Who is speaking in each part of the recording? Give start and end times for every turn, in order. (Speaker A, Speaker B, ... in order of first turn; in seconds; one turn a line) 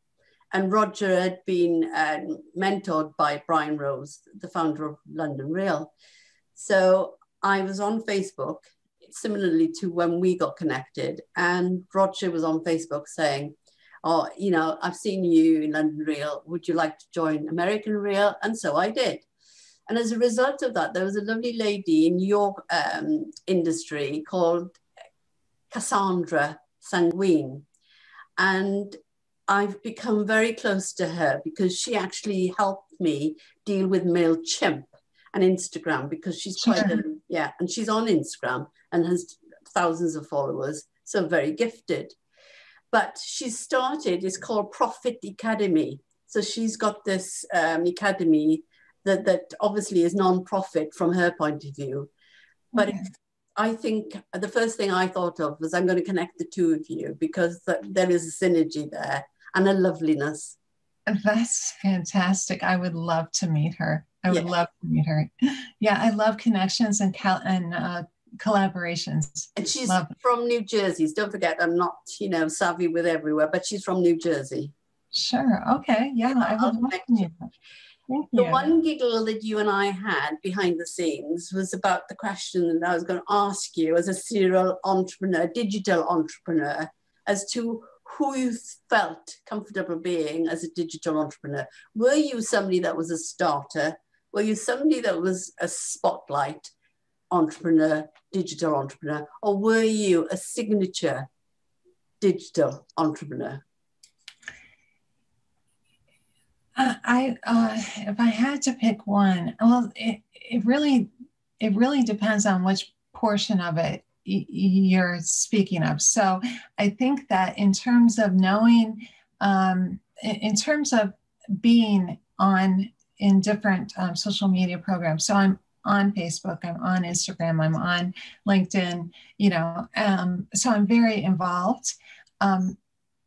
Speaker A: 0.5-5.9
Speaker A: 6.6-19.3
Speaker A: 19.9-24.8
Speaker A: 25.7-27.7
Speaker A: 28.4-42.2
Speaker B: 36.6-37.0
Speaker A: 42.9-52.1
Speaker B: 52.8-53.0
Speaker A: 52.8-60.6
Speaker B: 61.1-70.1
Speaker A: 69.6-74.7
Speaker B: 75.1-77.5
Speaker A: 76.4-77.3
Speaker B: 78.1-78.7
Speaker A: 78.3-96.7
Speaker A: 97.3-101.3
Speaker A: 102.2-103.6
Speaker B: 106.8-132.8